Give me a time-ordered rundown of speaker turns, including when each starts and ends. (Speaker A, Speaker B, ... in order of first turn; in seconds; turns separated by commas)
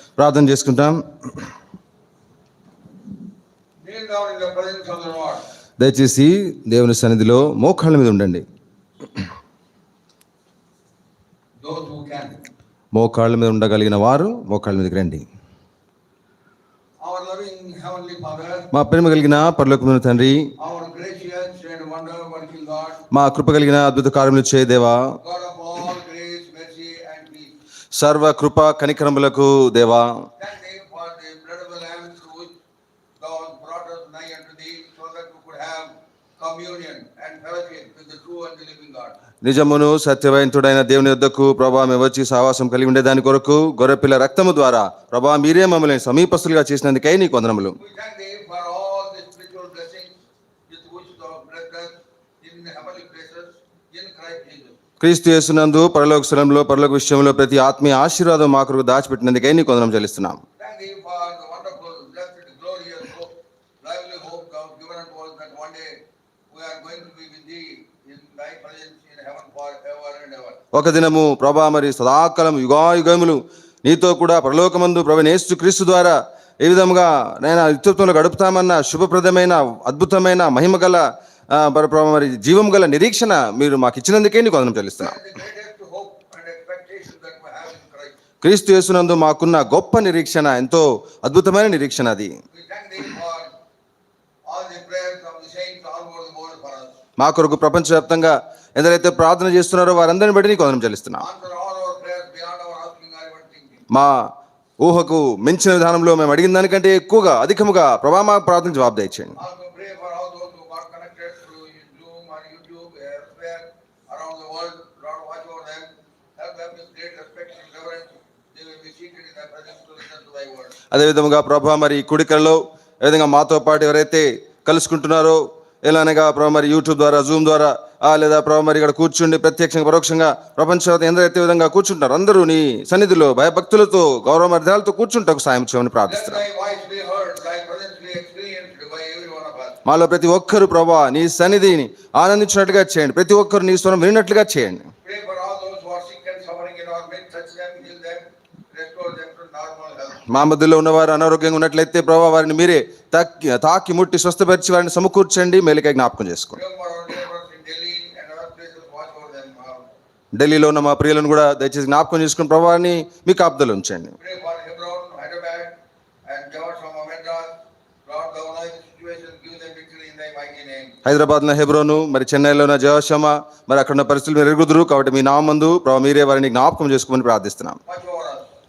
Speaker A: 0.2-1.0, Speaker B: 3.8-5.4, Speaker A: 5.8-8.4, Speaker B: 11.6-12.4, Speaker A: 12.9-15.2, Speaker B: 17.0-18.7, Speaker A: 18.7-20.5, Speaker B: 20.6-23.0, Speaker A: 23.1-25.0, Speaker B: 25.2-27.5, Speaker A: 27.9-30.2, Speaker B: 30.4-32.6, Speaker B: 33.2-39.1, Speaker A: 39.4-47.8, Speaker B: 47.8-50.1, Speaker B: 50.7-54.8, Speaker A: 55.0-60.4, Speaker B: 60.6-63.3, Speaker B: 63.8-65.9, Speaker B: 66.5-70.6, Speaker A: 70.7-85.2, Speaker B: 85.0-88.1, Speaker A: 88.4-92.3, Speaker B: 92.5-93.5, Speaker B: 94.5-97.0, Speaker A: 97.2-101.2, Speaker B: 101.2-103.8, Speaker A: 103.9-104.3, Speaker A: 104.8-109.3, Speaker B: 109.3-120.7, Speaker A: 120.9-136.4, Speaker B: 136.1-139.8, Speaker A: 139.8-144.9, Speaker B: 145.0-150.3, Speaker A: 150.3-156.6, Speaker B: 156.5-159.9, Speaker A: 160.3-164.1, Speaker B: 164.2-165.7, Speaker B: 166.3-167.5, Speaker B: 168.0-170.9, Speaker A: 171.0-177.8, Speaker B: 177.8-178.5